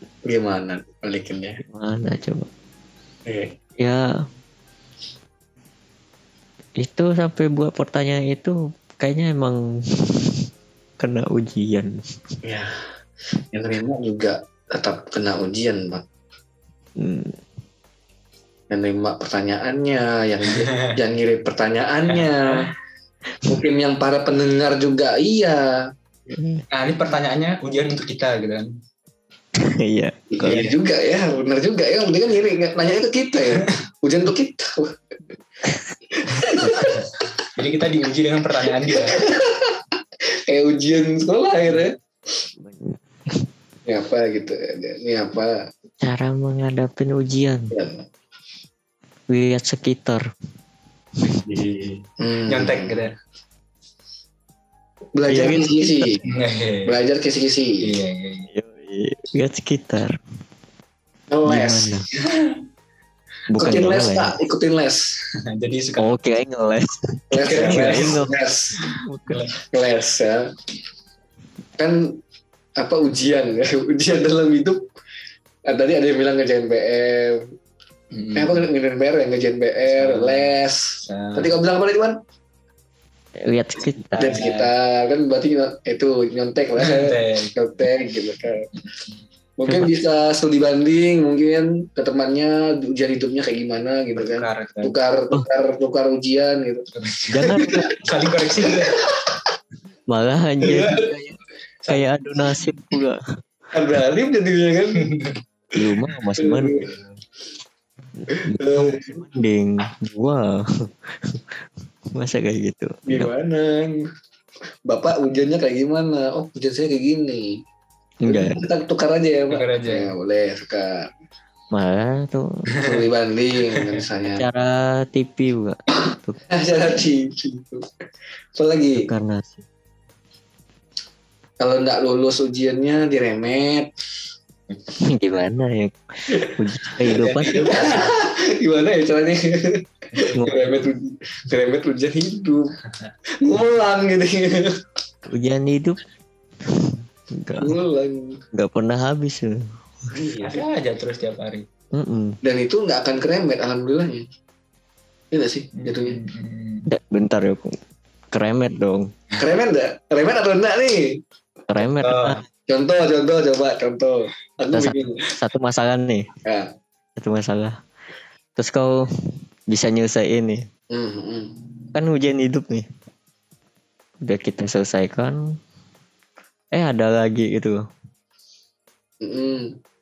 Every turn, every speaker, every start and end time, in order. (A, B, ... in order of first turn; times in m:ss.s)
0:00.3-0:01.6 A
0:01.6-0:02.5 B
0:03.2-0:03.6 A
0:03.8-0:04.0 B
0:06.8-0:10.5 B
0:11.0-0:12.0 B
0:12.4-0:12.8 A
0:13.5-0:16.0 A
0:17.0-0:17.4 B
0:18.7-0:22.7 A
0:20.5-0:20.9 C
0:22.1-0:22.6 C
0:23.5-0:25.7 A
0:26.3-0:26.6 B
0:26.7-0:28.7 C
0:29.6-0:30.7 B
0:30.3-0:34.9 A
0:30.4-0:30.7 C
0:36.1-0:37.1 A
0:36.5-0:39.2 C
0:38.8-0:39.8 A
0:40.5-0:41.9 A
0:42.6-0:43.5 B
0:43.9-0:45.5 A
0:46.0-0:47.7 B
0:47.7-0:48.0 A
0:49.3-0:50.3 B
0:51.2-0:51.5 B
0:52.2-0:53.0 A
0:52.5-0:53.1 C
0:55.1-0:56.2 A
0:55.3-0:56.1 B
0:56.2-0:57.0 C
0:56.9-0:57.8 A
0:57.8-0:58.5 C
0:58.5-1:00.2 B
1:01.3-1:02.0 A
1:01.4-1:02.1 B
1:02.3-1:02.6 C
1:03.5-1:04.4 B
1:03.6-1:05.1 A
1:05.5-1:06.1 C
1:06.0-1:09.5 B
1:07.3-1:08.8 A
1:07.5-1:08.2 C
1:09.3-1:09.5 C
1:09.7-1:10.5 A
1:11.8-1:12.2 A
1:12.8-1:14.9 A
1:15.7-1:17.5 A
1:18.1-1:18.6 C
1:18.4-1:22.2 A
1:19.9-1:20.5 C
1:21.1-1:21.5 C
1:23.4-1:24.3 B
1:24.2-1:24.7 C
1:24.2-1:28.7 A
1:26.8-1:27.5 C
1:29.6-1:36.9 A
1:34.2-1:34.9 C
1:36.9-1:39.0 C
1:37.3-1:37.9 B
1:37.4-1:37.9 A
1:38.6-1:39.4 A
1:40.1-1:43.2 B
1:40.6-1:41.0 A
1:41.8-1:42.2 C
1:43.7-1:45.1 A
1:45.1-1:45.4 C
1:45.8-1:46.9 B
1:46.4-1:46.8 A
1:48.3-1:51.6 B
1:48.3-1:49.2 A
1:52.1-1:53.3 B
1:53.1-1:54.0 A
1:54.9-1:57.6 A
1:58.2-1:58.6 B
1:58.3-2:01.1 A
1:59.5-2:00.1 C
2:01.7-2:02.7 B
2:02.8-2:04.4 A
2:04.3-2:06.4 B
2:06.5-2:07.9 A
2:08.6-2:09.1 A
2:09.0-2:09.6 B
2:11.6-2:13.9 A
2:15.0-2:17.9 B
2:16.3-2:22.7 A
2:17.2-2:17.9 C
2:20.3-2:20.9 B
2:23.4-2:24.7 A
2:25.3-2:26.0 B
2:26.6-2:27.7 B
2:27.6-2:28.4 A
2:28.5-2:29.6 B
2:30.1-2:30.6 A
2:30.4-2:31.6 C
2:31.9-2:32.4 B
2:32.4-2:34.2 A
2:35.3-2:36.2 A
2:35.8-2:36.9 C
2:36.9-2:37.8 B
2:38.3-2:39.1 B
2:39.4-2:41.2 A
2:41.7-2:42.4 B
2:42.0-2:42.4 C
2:42.7-2:45.2 A
2:44.7-2:46.3 B
2:47.2-2:47.8 B
2:48.6-2:50.6 B
2:50.9-2:51.5 A
2:51.9-2:52.9 B
2:54.2-2:55.4 B
2:56.7-2:57.8 B
2:59.2-2:59.8 A